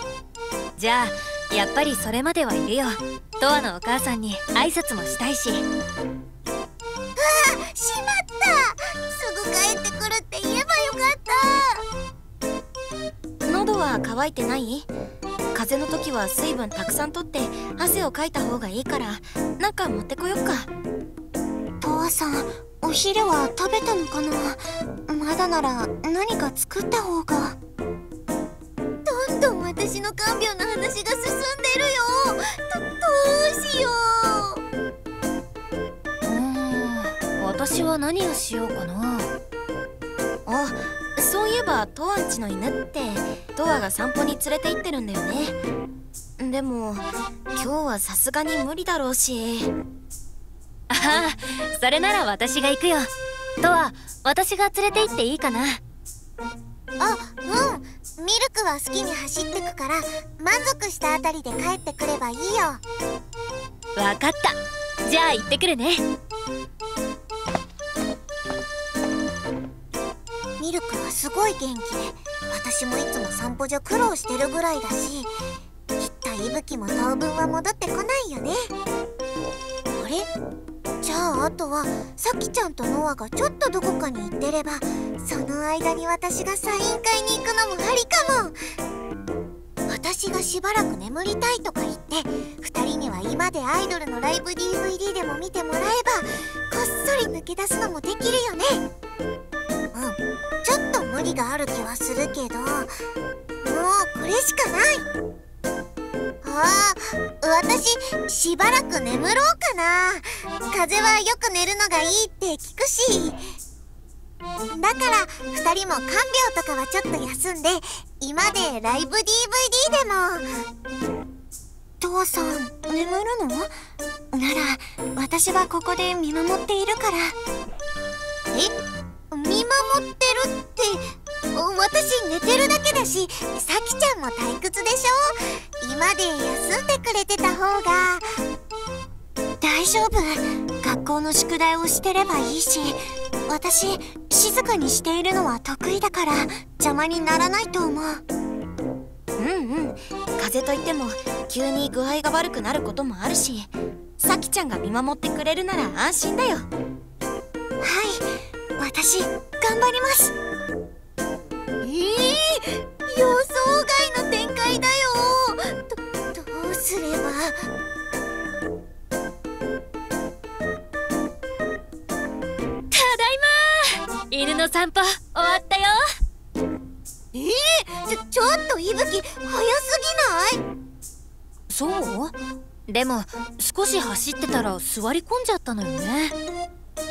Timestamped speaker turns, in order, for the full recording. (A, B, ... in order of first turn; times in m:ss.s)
0:00.8-0:05.6 A
0:07.2-0:11.8 B
0:13.5-0:14.9 C
0:15.5-0:20.7 C
0:21.8-0:27.6 B
0:29.0-0:34.6 B
0:36.3-0:39.3 A
0:40.5-0:45.6 C
0:46.4-0:49.7 C
0:50.9-0:53.1 A
0:53.6-0:55.8 A
0:57.0-1:02.8 B
1:04.0-1:06.0 A
1:10.6-1:15.3 B
1:16.0-1:18.7 B
1:19.9-1:20.3 B
1:21.0-1:28.6 B
1:29.9-1:38.8 B
1:39.9-1:42.9 B
1:43.6-1:45.1 B
1:46.4-1:53.4 B
1:54.7-2:00.5 B
2:02.0-2:03.7 B
2:04.3-2:07.4 B
2:09.3-2:18.3 B
2:19.6-2:28.2 B
2:29.4-2:36.7 C
2:37.8-2:40.3 B
2:41.8-2:47.6 B
2:52.9-2:56.0 A
2:57.3-3:00.6 B
3:01.7-3:02.3 A
3:02.9-3:06.4 A